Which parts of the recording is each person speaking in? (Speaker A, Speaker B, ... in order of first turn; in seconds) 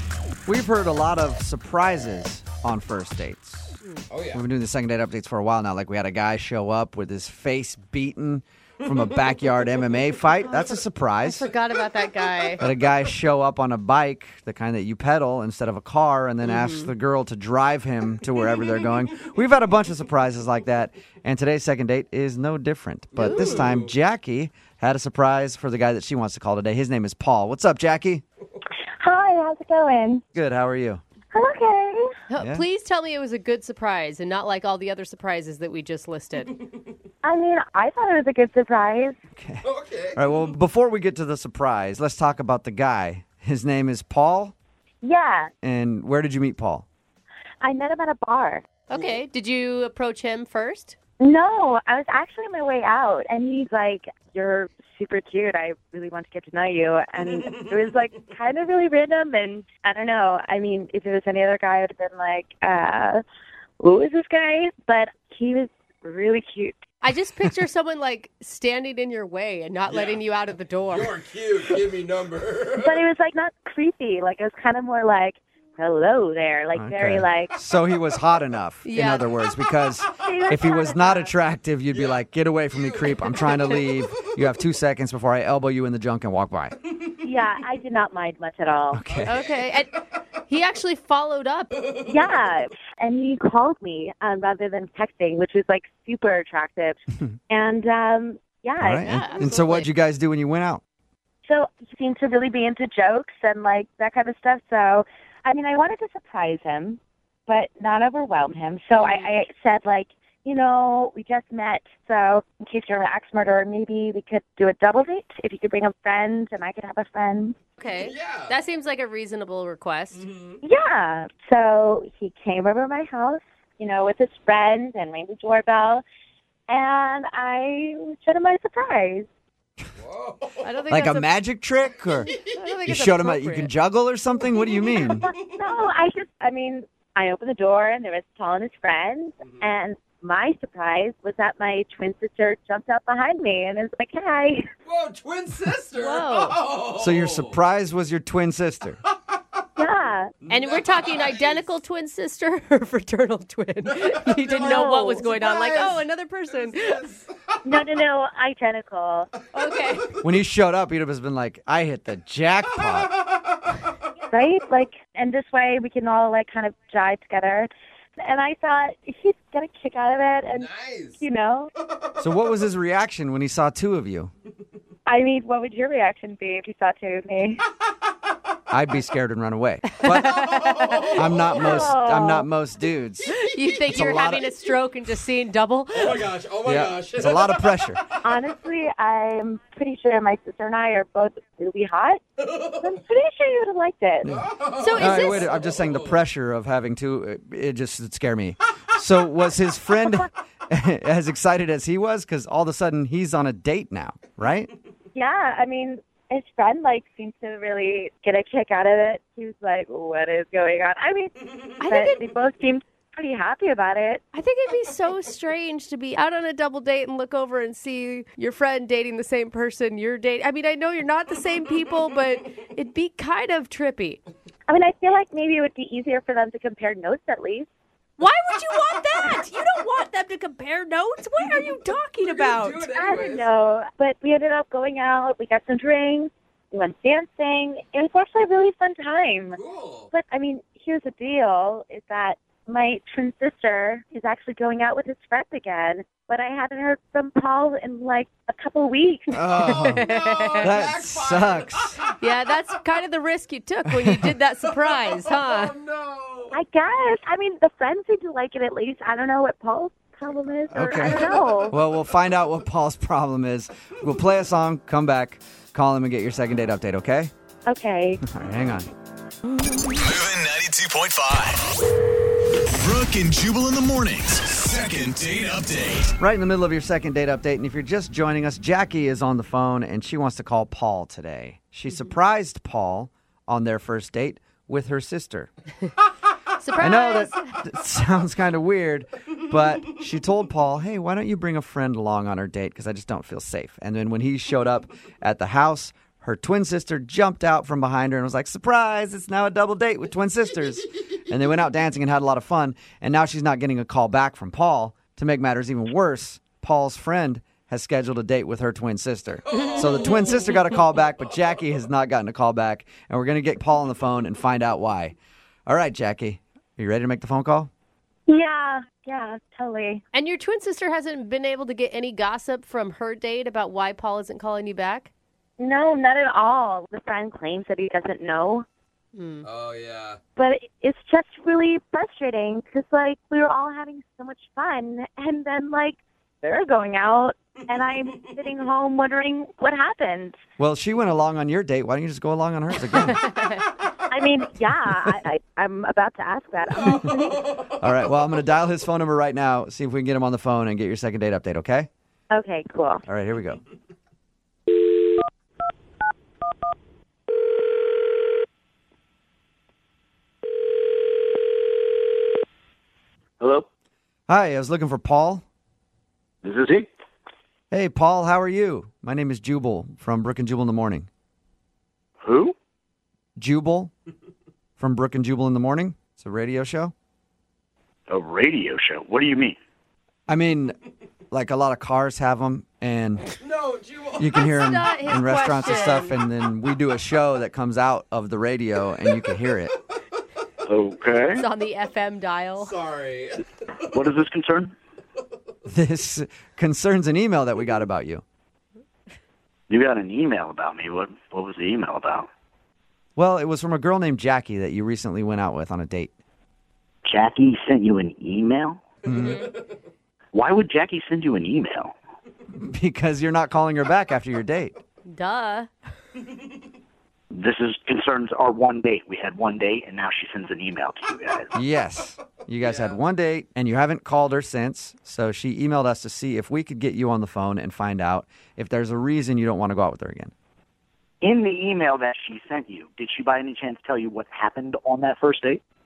Speaker A: 0.5-3.7, 4.3-11.5, 12.6-28.2, 30.3-31.0, 32.4-32.6, 39.3-44.5, 45.6-46.9, 76.7-86.8, 88.9-89.4, 98.8-100.8, 130.9-132.3, 132.8-135.3, 146.9-149.0, 160.2-163.1, 172.2-174.3, 178.7-180.4, 181.1-183.3, 183.9-184.5, 186.7-188.0, 194.2-204.7, 249.3-250.1, 250.6-251.9, 260.7-267.3, 268.2-268.9, 269.5-270.0, 276.1-285.5, 286.8-315.2, 315.7-317.7, 340.6-343.2, 347.6-351.9, 353.1-353.6, 364.3-365.4, 367.7-371.1, 373.4-373.9, 374.8-376.9, 380.3-380.8, 381.3-383.3, 384.2-389.7, 395.7-398.2, 403.2-406.1, 409.1-409.4, 412.5-414.7, 421.5-430.3
Speaker B: 4.1-4.4, 23.1-23.9, 39.6-40.2, 69.9-70.2, 70.9-73.0, 81.9-82.2, 82.7-84.3, 89.1-89.6, 91.8-92.1, 118.0-118.5, 120.1-120.6, 129.9-130.7, 134.6-135.6, 144.8-147.6, 150.4-151.7, 153.8-157.4, 170.5-171.2, 180.5-181.7, 185.9-187.7, 192.5-192.8, 194.2-196.2, 231.4-231.7, 232.2-233.5, 239.5-240.1, 249.7-251.9, 254.7-256.6, 261.0-261.6, 309.6-310.4, 329.4-330.2, 347.0-347.7, 383.4-384.3, 392.6-393.5, 409.1-409.6, 422.6-423.0
Speaker C: 10.4-12.6, 16.4-16.9, 32.3-36.6, 48.9-51.0, 67.0-71.2, 78.8-79.4, 89.2-91.8, 99.1-99.9, 109.0-109.3, 117.8-120.2, 130.6-131.5, 132.2-133.7, 145.9-146.6, 150.5-157.1, 159.5-160.2, 179.8-181.2, 183.2-186.3, 194.8-195.5, 211.8-212.2, 214.3-224.2, 228.2-232.9, 249.8-250.8, 252.0-255.7, 281.9-282.2, 286.6-287.7, 320.1-325.1, 329.1-329.5, 342.9-343.6, 384.3-386.2, 391.4-392.8, 409.2-409.5, 415.1-415.7
Speaker D: 29.0-30.2, 31.3-32.1, 37.2-39.1, 45.0-45.5, 47.6-48.6, 51.2-63.2, 63.8-66.8, 72.8-77.5, 80.2-81.3, 87.2-89.0, 92.0-99.6, 101.5-117.5, 120.6-126.0, 126.7-129.3, 135.0-144.7, 149.8-150.3, 154.6-155.3, 157.7-159.3, 164.3-167.7, 168.2-170.7, 171.2-171.7, 175.1-177.6, 181.2-182.5, 188.2-192.2, 192.7-194.3, 205.1-214.2, 224.7-227.7, 232.9-239.6, 240.1-249.8, 256.5-261.7, 267.7-268.2, 318.3-320.0, 325.6-328.6, 330.4-340.4, 344.1-347.5, 352.3-353.0
Speaker E: 270.0-271.7, 272.8-276.1
Speaker F: 363.4-363.7, 366.4-366.9, 372.2-372.5, 378.1-379.6, 390.6-391.4, 393.9-394.7, 399.7-402.3, 407.1-408.8, 410.3-411.9, 417.3-421.5, 431.2-435.6